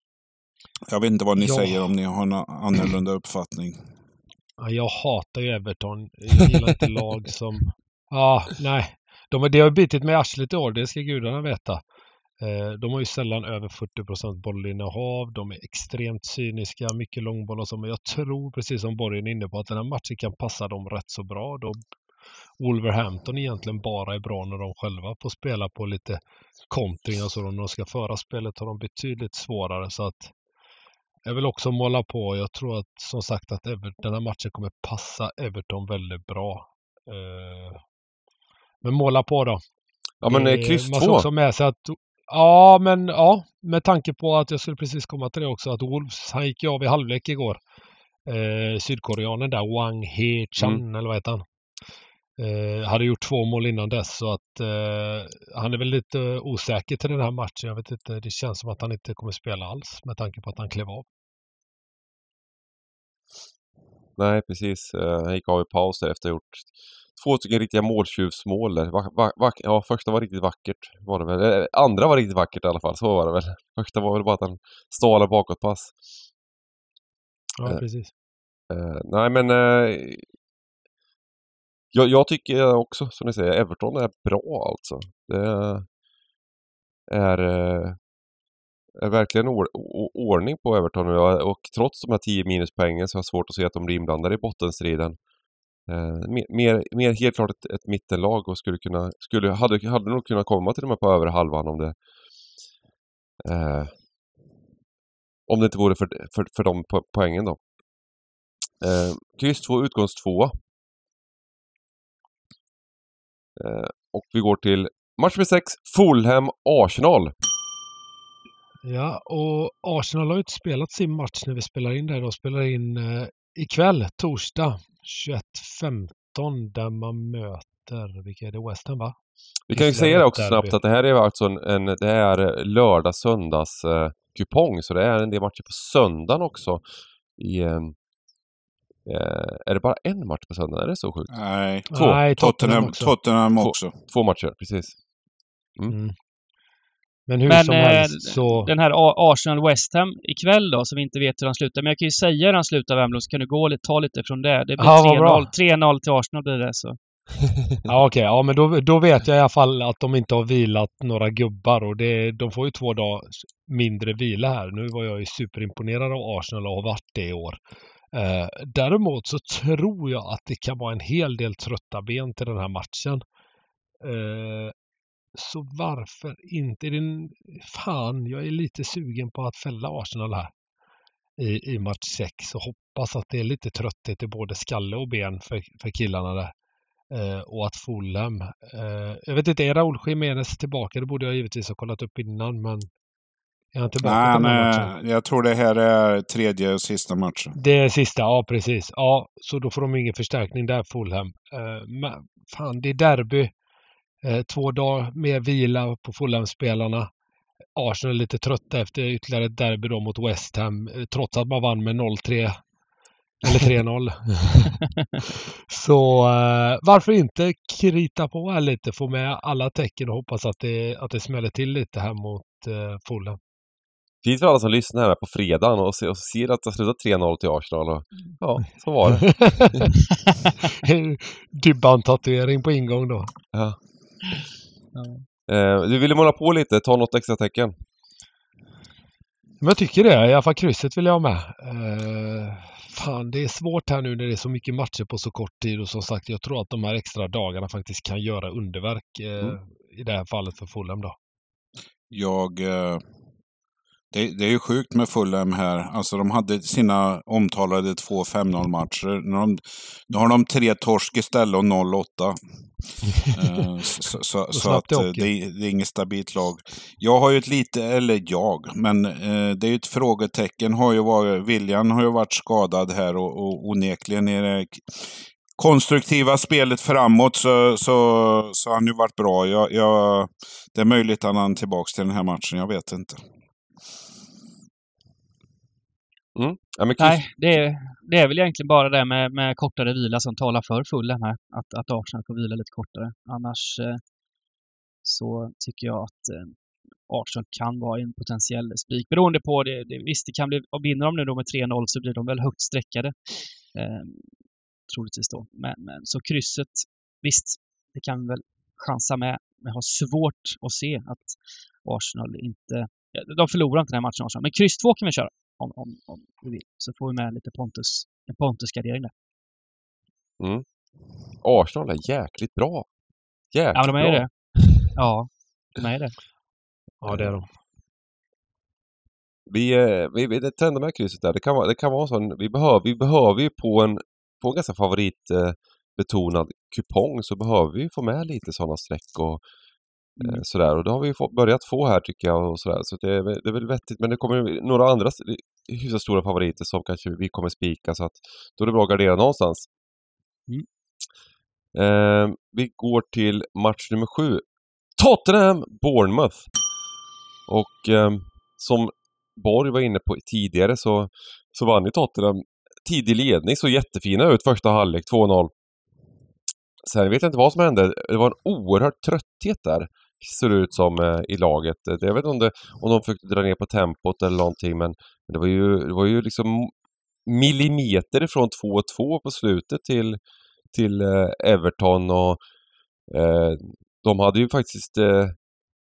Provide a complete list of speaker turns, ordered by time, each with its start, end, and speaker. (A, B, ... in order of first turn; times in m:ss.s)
0:00.9-0:03.8 A
0:01.4-0:01.9 B
0:04.6-0:11.8 B
0:12.4-0:21.8 B
0:22.6-0:30.3 B
0:31.3-0:37.8 B
0:38.8-0:39.6 B
0:40.2-0:41.3 C
0:40.3-0:47.6 B
0:48.3-0:51.4 B
0:52.4-1:01.0 B
1:04.2-1:15.9 C
1:17.6-1:18.1 B
1:18.7-1:20.2 C
1:21.9-1:25.9 C
1:27.1-1:28.0 C
1:29.0-1:35.2 C
1:35.9-1:42.0 C
1:43.4-1:43.9 C
1:45.5-1:47.6 C
1:48.8-1:50.6 C
1:53.6-1:57.3 C
1:58.8-2:09.1 B
2:09.7-2:16.8 C
2:09.7-2:10.8 B
2:17.4-2:18.0 C
2:19.0-2:21.4 C
2:21.3-2:23.9 A
2:21.9-2:23.1 B
2:21.9-2:22.2 C
2:23.6-2:25.0 C
2:25.9-2:26.1 B
2:27.3-2:28.7 B
2:27.4-2:37.0 D
2:34.8-2:35.5 B
2:37.9-2:47.6 B
2:48.1-2:53.2 B
2:54.0-2:54.7 B
2:55.3-3:00.5 B
3:01.4-3:06.5 B
3:07.1-3:12.9 B
3:13.7-3:14.9 B
3:14.0-3:17.6 A
3:17.6-3:23.5 B
3:24.2-3:27.1 B
3:27.8-3:32.6 B
3:33.4-3:34.8 B
3:35.3-3:43.4 B
3:44.2-3:49.9 C
3:49.2-3:49.9 B
3:50.8-3:53.3 B
3:55.0-3:55.2 D
3:55.5-3:57.7 C
3:59.6-4:11.1 B
4:12.1-4:13.0 A
4:14.1-4:22.4 A
4:23.3-4:35.0 A
4:24.5-4:25.3 B
4:35.6-4:43.2 A
4:46.4-4:47.2 C
4:47.0-4:54.0 D
4:55.0-4:56.6 D
4:57.1-5:03.1 D
5:03.7-5:04.3 D
5:04.9-5:19.1 D
5:21.4-5:22.9 C
5:23.5-5:24.9 C
5:23.7-5:24.3 D
5:24.9-5:26.1 D
5:27.0-5:27.4 B
5:27.1-5:27.3 C
5:29.5-5:39.4 C
5:40.2-5:40.4 D
5:40.2-5:49.7 C
5:51.7-5:54.4 C
5:55.0-5:56.5 C
5:57.5-6:05.5 C
6:06.8-6:16.7 C
6:17.3-6:20.2 C
6:20.7-6:22.4 C
6:23.1-6:25.3 C